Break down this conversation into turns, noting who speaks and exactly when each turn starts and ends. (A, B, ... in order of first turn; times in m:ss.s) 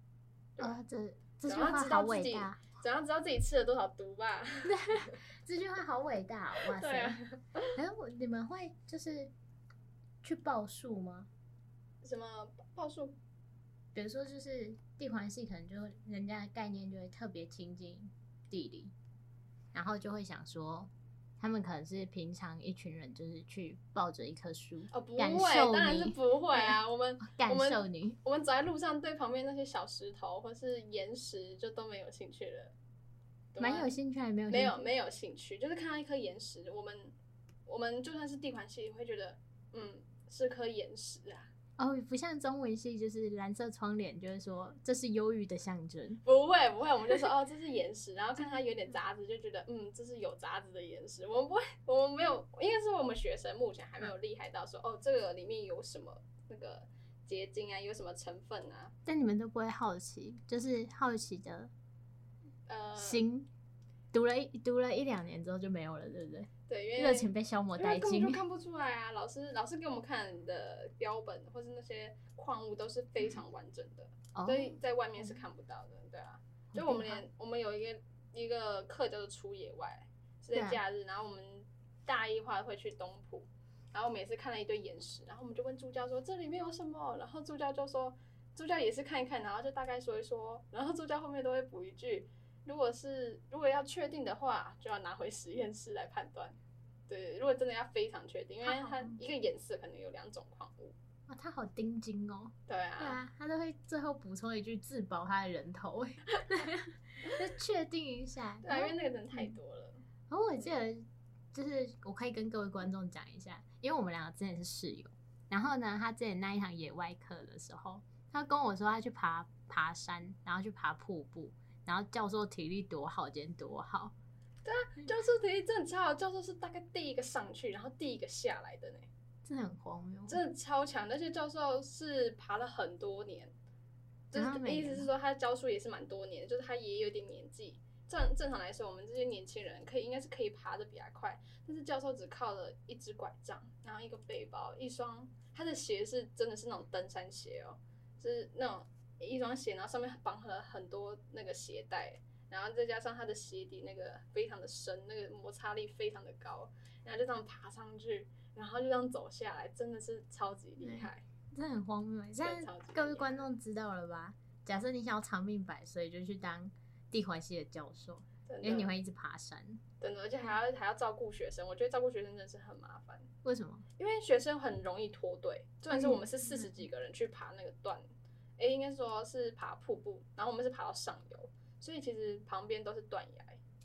0:00.6-0:02.6 A
0:01.4-0:05.1 B
0:04.6-0:07.2 A
0:06.6-0:07.7 B
0:07.7-0:09.3 A
0:10.2-0:11.3 A
0:12.0-0:13.1 B
0:13.9-0:18.9 A
0:19.7-0:28.2 A
0:24.9-0:32.7 B
0:33.5-0:33.9 B
0:33.6-0:34.9 A
0:34.5-0:37.1 B
0:37.7-0:41.5 B
0:41.8-0:46.2 A
0:46.2-0:58.9 B
0:59.0-1:01.7 A
1:02.7-1:03.2 B
1:03.0-1:03.5 A
1:04.1-1:08.4 A
1:06.7-1:36.6 B
1:14.3-1:14.8 A
1:16.7-1:17.2 A
1:20.5-1:20.8 A
1:37.1-1:40.9 B
1:38.6-1:39.2 A
1:41.3-1:49.6 A
1:42.7-1:43.2 B
1:48.6-1:50.0 B
1:50.3-2:04.1 A
2:04.6-2:09.1 B
2:09.4-2:10.4 A
2:10.3-2:13.5 B
2:14.3-2:41.2 B
2:14.3-2:15.1 A
2:40.8-2:49.8 A
2:42.4-2:43.3 B
2:48.5-2:48.9 B
2:50.0-2:53.3 B
2:53.4-2:53.8 A
2:54.0-2:58.1 B
2:55.9-2:56.8 A
2:58.6-3:03.6 B